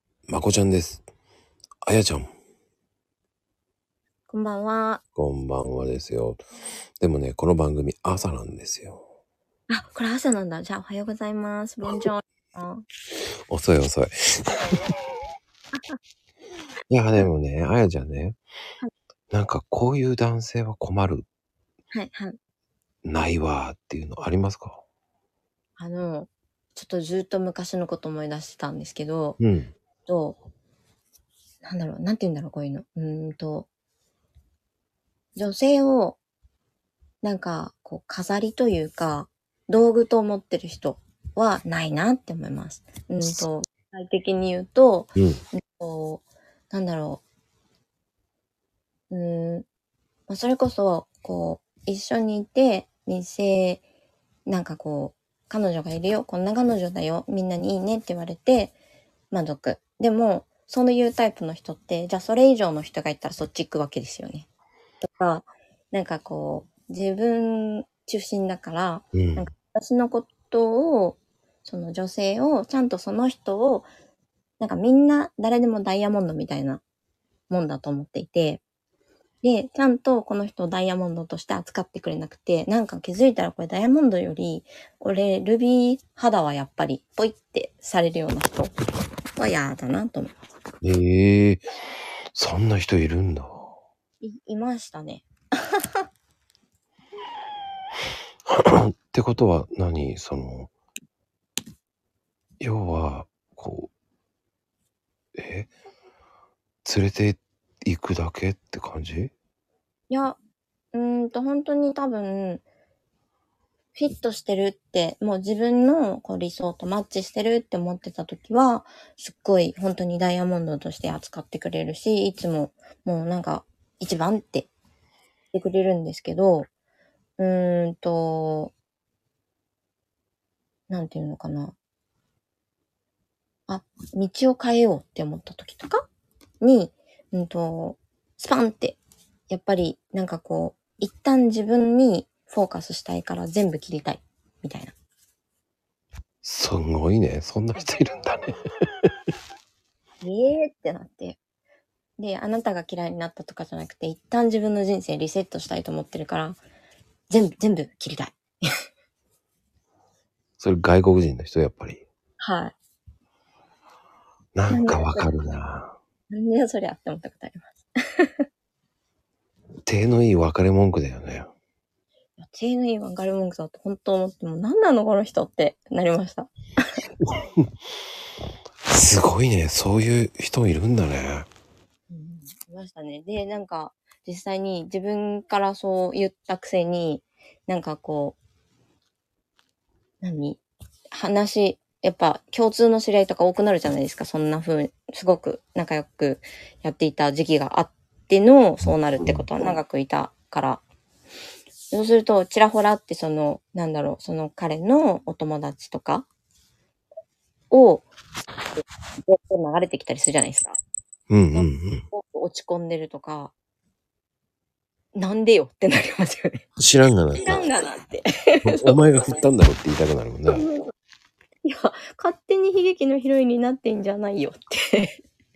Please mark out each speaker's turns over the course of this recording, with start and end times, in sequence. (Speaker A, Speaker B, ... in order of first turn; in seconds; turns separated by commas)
Speaker A: 0.3-1.0, Speaker A: 1.8-2.3, Speaker B: 4.3-5.0, Speaker A: 5.1-6.4, Speaker A: 7.0-9.0, Speaker B: 9.7-12.8, Speaker A: 13.5-14.6, Speaker A: 16.9-18.4, Speaker A: 19.3-21.2, Speaker B: 21.9-22.4, Speaker A: 23.0-24.8, Speaker B: 25.8-29.4, Speaker A: 29.4-29.7, Speaker B: 30.1-30.4, Speaker B: 31.6-33.7, Speaker B: 35.4-36.2, Speaker B: 37.2-47.2, Speaker B: 49.1-49.6, Speaker B: 50.3-53.8, Speaker B: 54.5-58.7, Speaker B: 59.3-64.5, Speaker B: 65.0-73.9, Speaker A: 69.1-69.5, Speaker B: 74.6-76.8, Speaker B: 77.5-78.6, Speaker B: 79.4-88.7, Speaker B: 89.3-90.3, Speaker A: 90.8-91.6, Speaker A: 92.3-93.7, Speaker B: 94.2-96.0, Speaker A: 98.5-100.7, Speaker A: 102.6-103.9, Speaker A: 105.3-105.7, Speaker A: 106.8-109.3, Speaker B: 110.1-110.4, Speaker B: 110.9-112.6, Speaker B: 113.9-124.7, Speaker B: 125.5-126.7, Speaker B: 127.4-128.7, Speaker B: 130.9-131.7, Speaker B: 133.7-136.1, Speaker B: 136.6-144.9, Speaker A: 146.4-148.5, Speaker B: 150.2-151.4, Speaker B: 152.2-156.6, Speaker B: 157.3-158.6, Speaker A: 160.6-162.0, Speaker B: 162.4-162.7, Speaker A: 164.5-165.9, Speaker B: 164.7-165.3, Speaker B: 166.3-168.4, Speaker A: 169.8-171.5, Speaker B: 172.4-176.5, Speaker A: 178.8-181.5, Speaker B: 182.1-188.4, Speaker B: 190.2-200.8, Speaker B: 201.9-206.3, Speaker B: 207.7-208.1, Speaker B: 208.8-210.8, Speaker A: 211.3-212.0, Speaker B: 211.5-213.5, Speaker B: 215.1-216.6, Speaker A: 216.8-217.7, Speaker B: 217.3-219.0, Speaker A: 218.6-220.7, Speaker B: 220.5-220.9, Speaker B: 221.6-225.2